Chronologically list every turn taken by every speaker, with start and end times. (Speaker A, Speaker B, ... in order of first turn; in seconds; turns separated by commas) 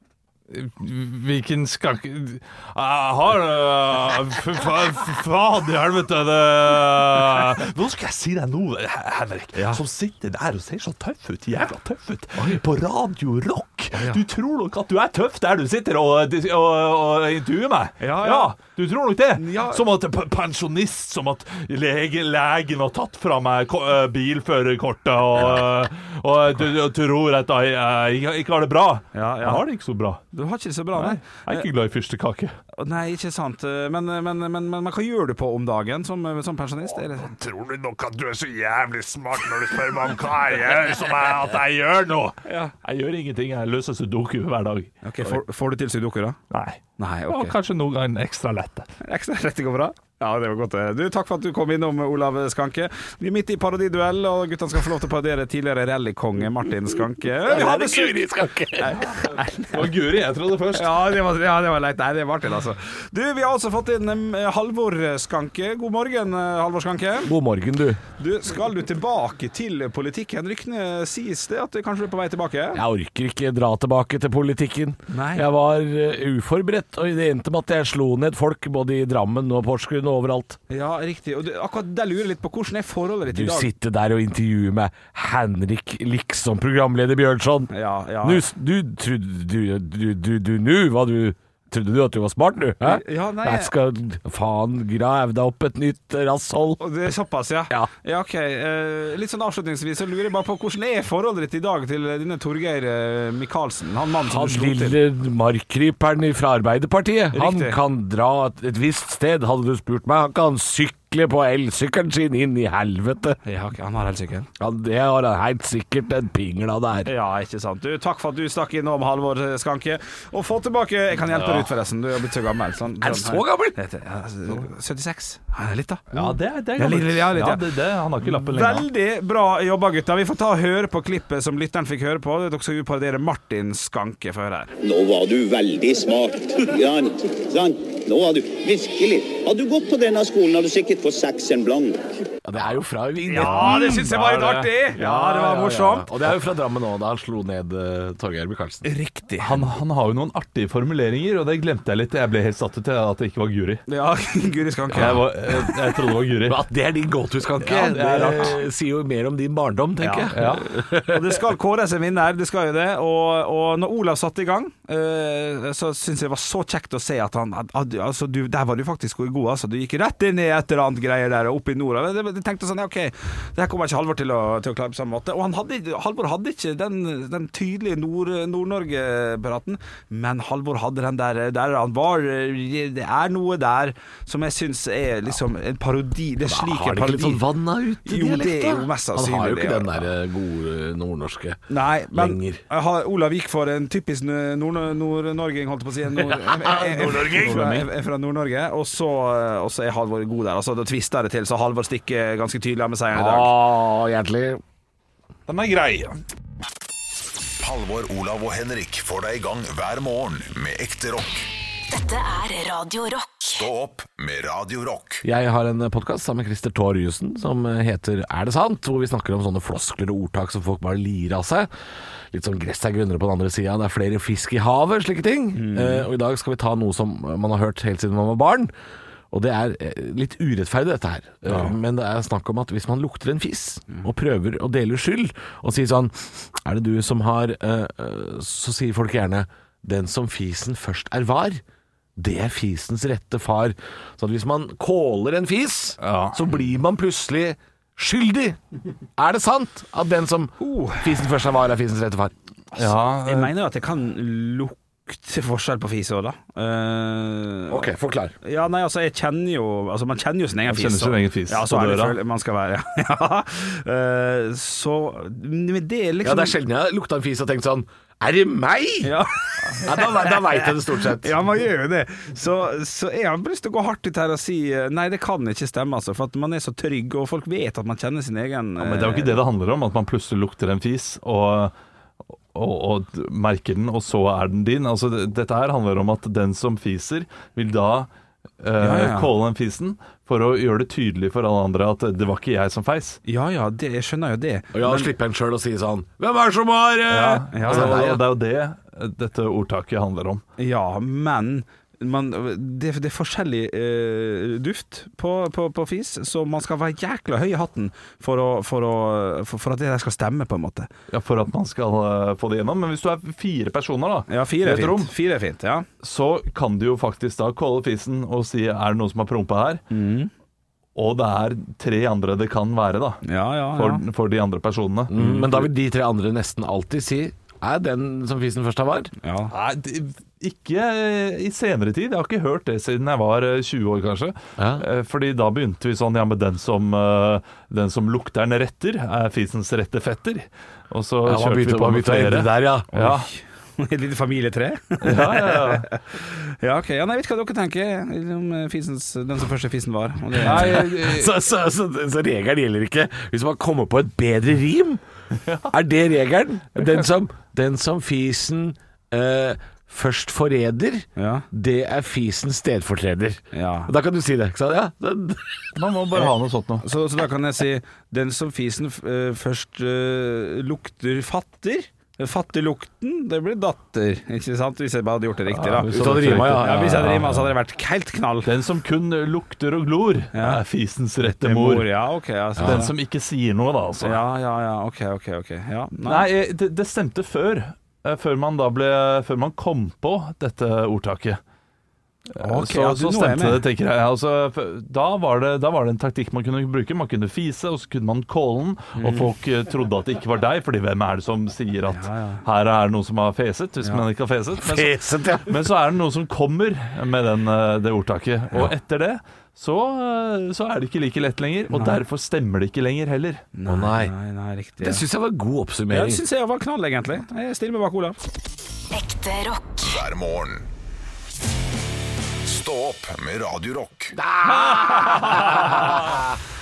Speaker A: 0.5-30.2, Speaker B: 9.6-9.8, Speaker B: 13.9-14.2, Speaker B: 18.0-18.6, Speaker B: 19.4-19.9, Speaker B: 29.1-29.6, Speaker B: 30.3-31.7, Speaker A: 30.9-32.6, Speaker B: 32.8-37.3, Speaker A: 37.2-44.9, Speaker B: 42.5-42.7, Speaker B: 45.0-46.4, Speaker A: 46.5-48.9, Speaker B: 47.0-47.5, Speaker B: 49.0-59.9, Speaker C: 57.4-59.0, Speaker A: 59.7-60.9, Speaker B: 60.7-67.3, Speaker C: 67.3-68.0, Speaker B: 68.2-72.8, Speaker C: 72.7-80.6, Speaker B: 75.1-75.5, Speaker B: 80.7-83.7, Speaker C: 83.3-96.8, Speaker B: 87.7-88.4, Speaker B: 92.9-93.7, Speaker B: 96.8-105.0, Speaker C: 104.2-113.4, Speaker B: 107.3-107.8, Speaker B: 113.4-114.5, Speaker C: 114.6-117.1, Speaker B: 117.0-127.6, Speaker C: 123.0-123.8, Speaker A: 126.1-128.9, Speaker B: 128.2-134.7, Speaker D: 134.8-142.0, Speaker C: 142.4-143.8, Speaker B: 143.3-146.1, Speaker A: 143.3-144.7, Speaker C: 144.9-148.9, Speaker B: 148.8-149.7, Speaker A: 149.4-153.8, Speaker B: 153.9-155.2, Speaker C: 154.9-155.8, Speaker A: 154.9-156.7, Speaker C: 156.3-161.4, Speaker A: 157.6-158.6, Speaker B: 160.0-160.4, Speaker A: 160.3-160.7, Speaker B: 161.1-187.4, Speaker C: 186.4-192.6, Speaker B: 188.1-190.1, Speaker B: 191.7-203.5, Speaker C: 196.2-197.9, Speaker C: 203.1-204.6, Speaker A: 205.5-206.2, Speaker E: 207.6-211.5, Speaker F: 211.9-213.7, Speaker E: 213.4-215.2, Speaker C: 215.2-221.7, Speaker C: 222.3-228.7, Speaker B: 225.5-226.1, Speaker C: 229.3-241.6, Speaker C: 242.2-248.6, Speaker A: 246.0-246.4, Speaker C: 249.2-252.3, Speaker B: 250.6-251.2, Speaker A: 252.8-253.5, Speaker B: 252.8-257.9, Speaker C: 257.7-258.4, Speaker B: 258.4-266.6, Speaker A: 260.7-262.2, Speaker C: 266.2-269.1, Speaker B: 269.0-279.4, Speaker C: 269.7-271.4, Speaker A: 278.8-281.7, Speaker A: 282.5-293.2, Speaker B: 288.8-289.3, Speaker B: 293.2-295.1, Speaker C: 294.7-298.2, Speaker A: 297.1-300.4, Speaker B: 297.5-298.0, Speaker B: 300.6-310.9, Speaker A: 311.1-315.1, Speaker B: 314.3-315.9, Speaker A: 316.0-319.8, Speaker B: 319.9-320.3, Speaker A: 320.9-325.6, Speaker B: 323.2-324.1, Speaker C: 325.1-329.1, Speaker B: 325.2-325.5, Speaker B: 329.2-329.5, Speaker A: 329.5-343.3, Speaker C: 334.6-334.9, Speaker C: 341.2-342.9, Speaker B: 342.9-350.9, Speaker A: 345.0-345.9, Speaker C: 350.4-355.0, Speaker A: 350.4-351.3, Speaker A: 355.4-355.7, Speaker C: 355.7-365.7, Speaker A: 356.8-357.1, Speaker B: 361.2-361.5, Speaker B: 363.5-363.9, Speaker A: 365.8-366.9, Speaker B: 366.1-378.5, Speaker A: 375.5-377.5, Speaker C: 375.9-377.3, Speaker A: 378.4-381.9, Speaker B: 380.3-380.6, Speaker B: 381.2-382.9, Speaker C: 382.6-382.9, Speaker A: 382.6-384.2, Speaker B: 384.0-386.3, Speaker A: 386.0-391.4, Speaker A: 392.3-413.4, Speaker B: 392.4-393.6, Speaker B: 399.0-399.3, Speaker B: 401.9-402.4, Speaker C: 404.6-405.7, Speaker B: 411.7-412.0, Speaker B: 413.6-415.1, Speaker C: 413.7-414.1, Speaker C: 414.8-416.2, Speaker B: 415.9-418.2, Speaker F: 418.9-419.9, Speaker E: 419.8-420.7, Speaker E: 422.4-424.2, Speaker C: 424.1-426.4, Speaker A: 424.6-426.0, Speaker B: 424.7-426.1